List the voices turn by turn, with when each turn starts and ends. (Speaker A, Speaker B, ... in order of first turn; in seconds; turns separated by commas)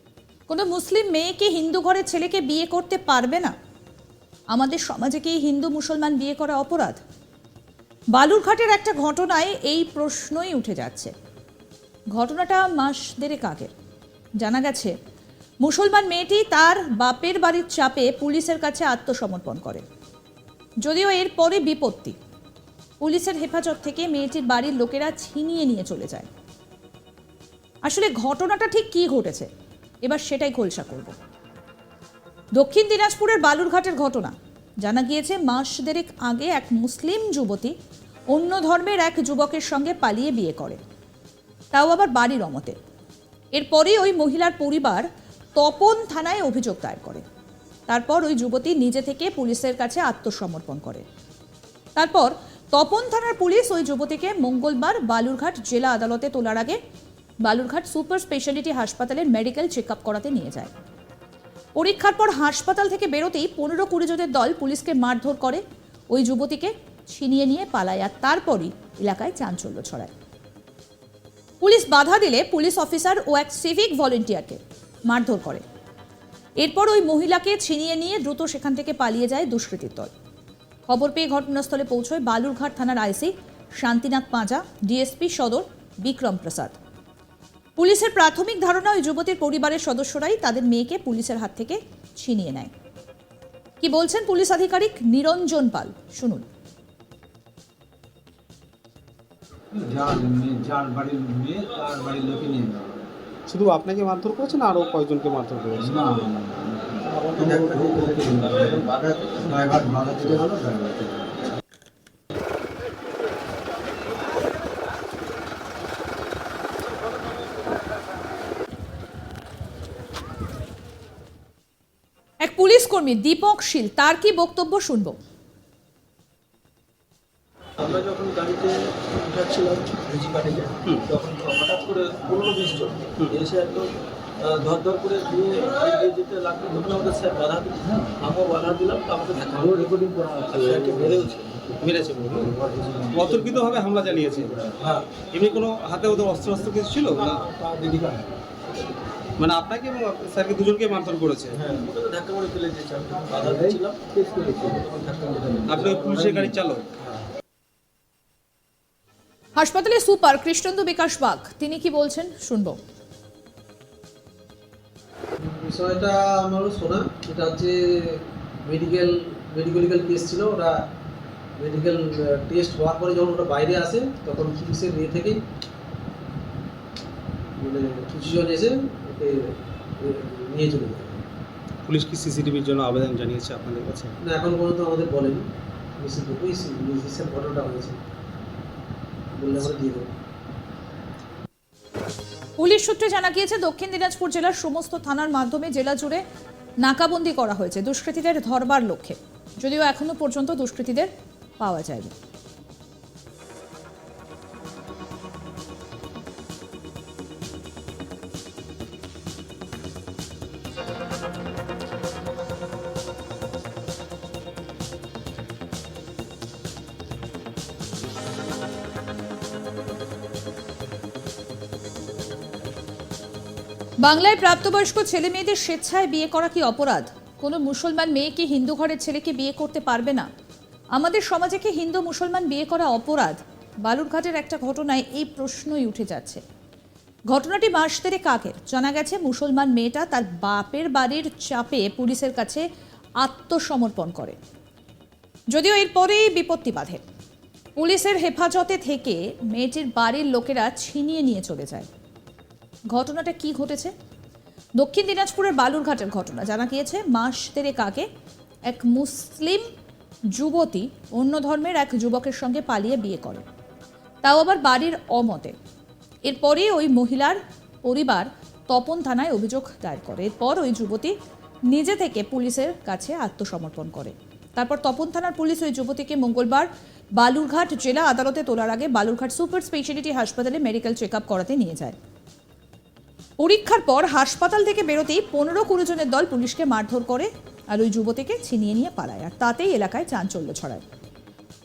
Speaker A: 0.5-3.5, Speaker A: 4.5-7.0, Speaker A: 8.1-11.1, Speaker A: 12.1-13.7, Speaker A: 14.4-14.9, Speaker A: 15.6-19.8, Speaker A: 20.8-22.2, Speaker A: 23.0-26.3, Speaker A: 27.9-29.5, Speaker A: 30.0-31.1, Speaker A: 32.6-37.7, Speaker A: 38.3-40.8, Speaker A: 41.7-42.8, Speaker A: 43.5-47.2, Speaker A: 47.9-51.0, Speaker A: 52.0-56.8, Speaker A: 57.4-60.7, Speaker A: 61.8-70.1, Speaker A: 71.6-75.6, Speaker A: 76.6-80.1, Speaker A: 80.9-86.8, Speaker A: 87.8-92.7, Speaker A: 93.8-96.5, Speaker B: 99.7-103.1, Speaker C: 103.5-106.0, Speaker B: 105.8-108.9, Speaker D: 107.3-109.5, Speaker B: 109.4-111.4, Speaker A: 122.4-125.2, Speaker D: 127.8-133.9, Speaker D: 134.4-139.9, Speaker B: 139.5-141.3, Speaker D: 140.5-141.7, Speaker C: 141.8-142.6, Speaker B: 142.5-144.7, Speaker C: 143.1-144.6, Speaker D: 144.8-145.1, Speaker C: 145.3-147.4, Speaker D: 147.3-148.2, Speaker C: 149.4-151.6, Speaker D: 151.5-156.4, Speaker B: 153.4-154.9, Speaker C: 155.7-156.8, Speaker A: 159.6-162.8, Speaker E: 165.4-170.8, Speaker E: 171.6-175.4, Speaker E: 177.6-181.2, Speaker C: 181.9-184.2, Speaker E: 184.2-185.4, Speaker E: 186.0-188.0, Speaker E: 189.4-190.1, Speaker A: 192.6-196.2, Speaker A: 196.8-202.1, Speaker A: 224.0-230.3, Speaker A: 230.9-236.4, Speaker A: 237.3-242.7, Speaker A: 243.2-244.4, Speaker A: 245.5-247.0, Speaker A: 247.8-251.9, Speaker A: 252.9-253.9, Speaker A: 254.8-258.1, Speaker A: 258.7-259.7, Speaker A: 260.3-263.4, Speaker A: 264.2-265.6, Speaker A: 266.2-271.1, Speaker A: 271.7-276.7, Speaker A: 277.2-282.0, Speaker A: 283.4-290.8